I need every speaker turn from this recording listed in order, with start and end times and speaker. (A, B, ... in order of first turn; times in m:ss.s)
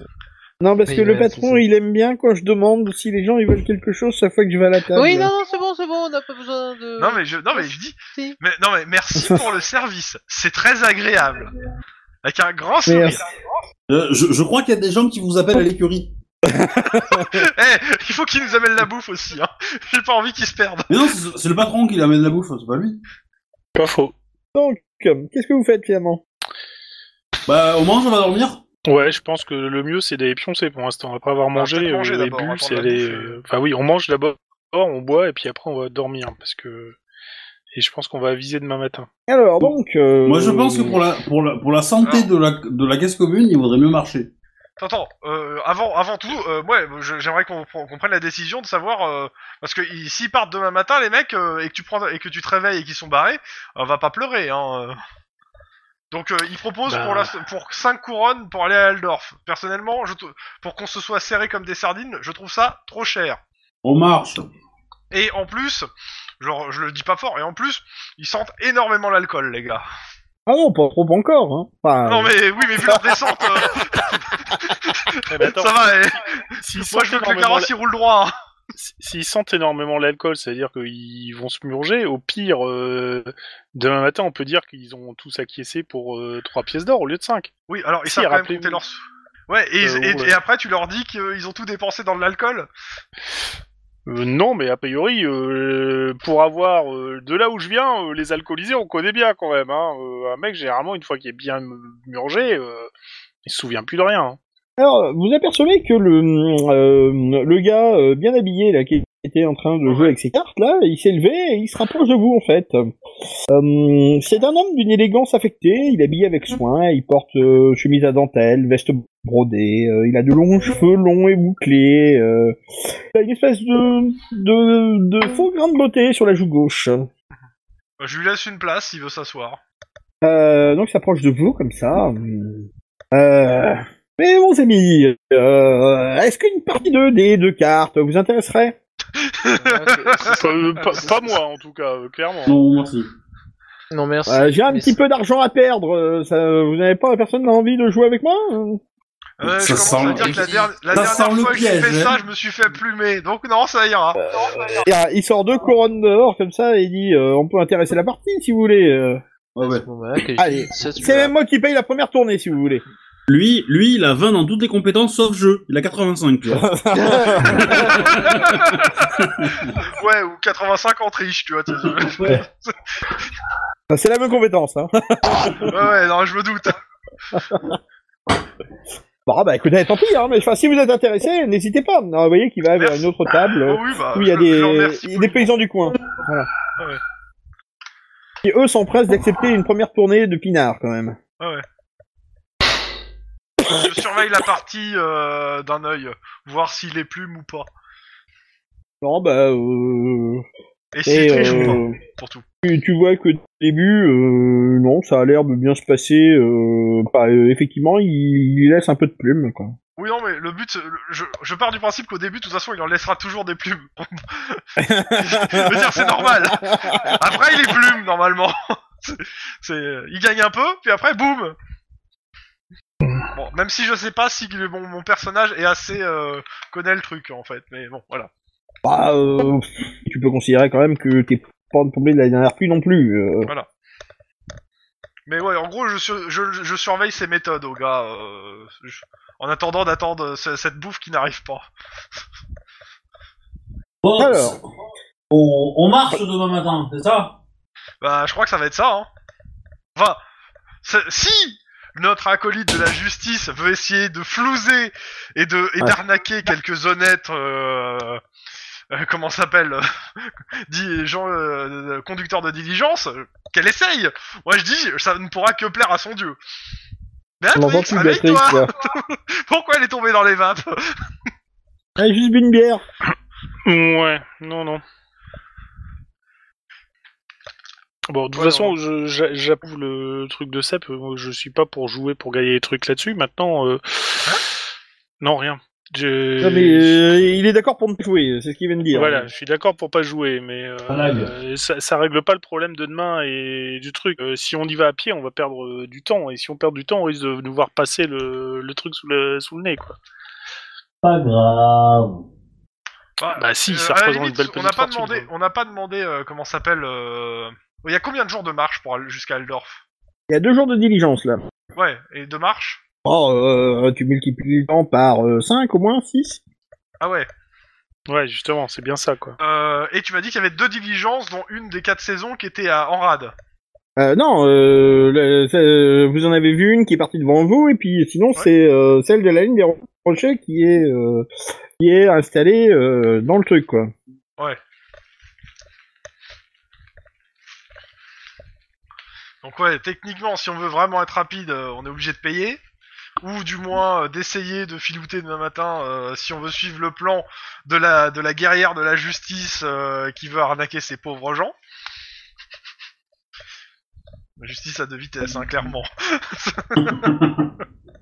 0:00.6-0:05.3 A
0:00.9-0:01.6 B
0:04.9-0:08.4 B
0:07.0-0:11.5 C
0:09.2-0:09.4 A
0:12.2-0:13.2 C
0:12.8-0:13.3 A
0:13.9-0:16.1 D
0:16.4-0:17.4 A
0:16.9-0:20.9 C
0:20.9-0:23.0 D
0:23.8-0:24.1 E
0:24.5-0:26.2 A
0:27.5-0:28.6 D
0:28.8-0:37.0 E
0:31.5-0:33.4 C
0:37.7-0:39.1 E
0:39.3-0:41.0 A
0:40.2-0:44.3 D
0:44.8-0:55.0 C
0:56.1-1:03.4 C
0:56.8-0:57.3 E
1:03.8-1:04.5 D
1:05.1-1:05.9 C
1:06.4-1:09.8 C
1:10.5-1:13.3 A
1:12.0-1:18.3 C
1:15.3-1:15.9 E
1:16.6-1:17.7 E
1:18.8-1:27.5 E
1:27.7-1:32.7 C
1:28.0-1:28.8 E
1:29.8-1:30.4 E
1:34.0-1:42.9 E
1:43.4-1:44.4 E
1:44.8-1:52.9 A
1:49.8-1:50.1 C
1:53.5-2:07.0 A
2:08.0-2:09.6 C
2:10.2-2:18.8 A
2:19.2-2:21.1 C
2:19.6-2:21.3 B
2:20.2-2:22.6 E
2:22.4-2:23.1 D
2:23.9-2:25.0 B
2:24.3-2:28.8 A
2:29.4-2:34.2 C
2:29.4-2:32.2 D
2:34.2-2:39.2 A
2:39.5-2:39.8 D
2:39.6-2:41.3 B
2:40.4-2:42.8 A
2:43.3-2:49.8 D
2:46.5-2:47.7 A
2:47.7-2:52.9 C
2:52.0-2:52.4 D
2:53.9-2:55.8 A
2:55.6-2:56.8 C
2:57.3-2:57.7 A
2:59.2-3:06.5 A
3:02.7-3:03.1 C
3:03.6-3:05.5 C
3:08.4-3:11.2 A
3:13.6-3:17.7 C
3:19.0-3:20.4 A
3:20.9-3:22.4 C
3:21.0-3:22.0 A
3:22.6-3:29.8 A
3:30.0-3:41.6 C
3:34.8-3:37.4 A
3:43.3-3:48.3 C
3:48.8-3:53.5 A
3:55.2-4:01.7 C
4:04.0-4:04.6 D
4:04.2-4:04.6 A
4:05.3-4:07.3 D
4:08.0-4:09.1 C
4:10.8-4:18.2 C
4:18.9-4:26.4 C
4:27.4-4:30.9 C
4:27.5-4:28.7 A
4:32.0-4:32.8 A
4:33.6-4:34.8 E
4:38.1-4:44.4 E
4:38.3-4:38.8 C
4:45.2-4:47.0 E
4:46.4-4:49.3 A
4:48.9-5:00.0 E
4:50.9-4:51.3 D
5:01.0-5:02.2 D
5:03.2-5:09.8 C
5:03.4-5:05.3 E
5:10.3-5:11.4 A
5:11.8-5:12.8 C
5:13.0-5:16.4 A
5:17.0-5:17.3 C
5:18.1-5:19.4 E
5:19.4-5:23.3 C
5:24.0-5:31.3 A
5:31.8-5:33.9 A
5:39.4-5:42.6 C
5:43.2-5:51.6 C
5:54.4-5:57.2 C
5:57.0-5:57.4 D